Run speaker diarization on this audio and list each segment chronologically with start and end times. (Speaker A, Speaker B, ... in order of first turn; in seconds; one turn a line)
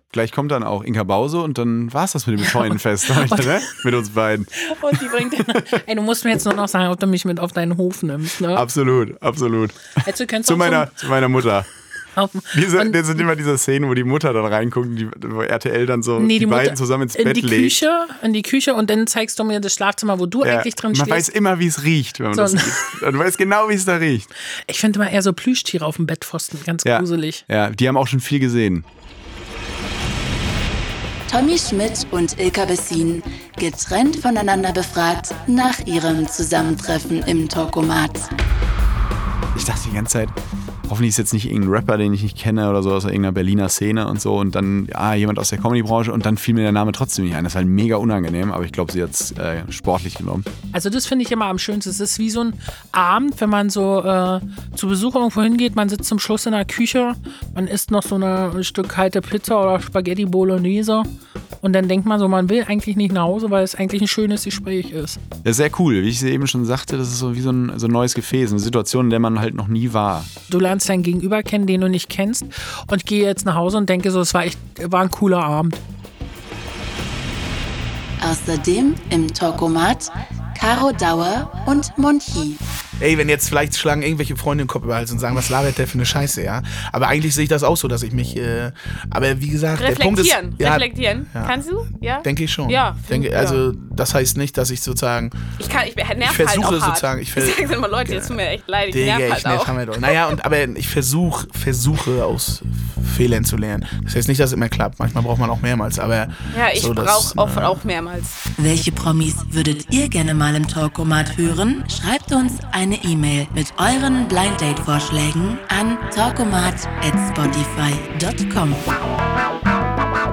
Speaker A: 0.1-5.6
Speaker B: 2.6-3.8
Speaker B: 4.6-8.7
Speaker A: 8.5-9.9
Speaker B: 10.0-10.9
Speaker A: 10.4-11.7
Speaker B: 12.2-13.2
Speaker A: 12.5-17.8
Speaker B: 16.2-21.3
Speaker A: 20.4-24.3
Speaker B: 22.3-22.9
Speaker B: 24.5-27.4
Speaker A: 26.8-28.9
Speaker C: 31.3-38.3
Speaker A: 39.5-40.4
Speaker A: 40.9-50.5
Speaker B: 50.7-61.1
Speaker B: 61.6-65.2
Speaker A: 65.4-70.3
Speaker B: 70.5-75.8
Speaker C: 78.2-82.6
Speaker D: 83.0-91.6
Speaker E: 89.7-93.6
Speaker D: 92.2-95.4
Speaker E: 95.6-100.3
Speaker D: 96.2-107.9
Speaker E: 106.5-108.4
Speaker C: 108.6-118.9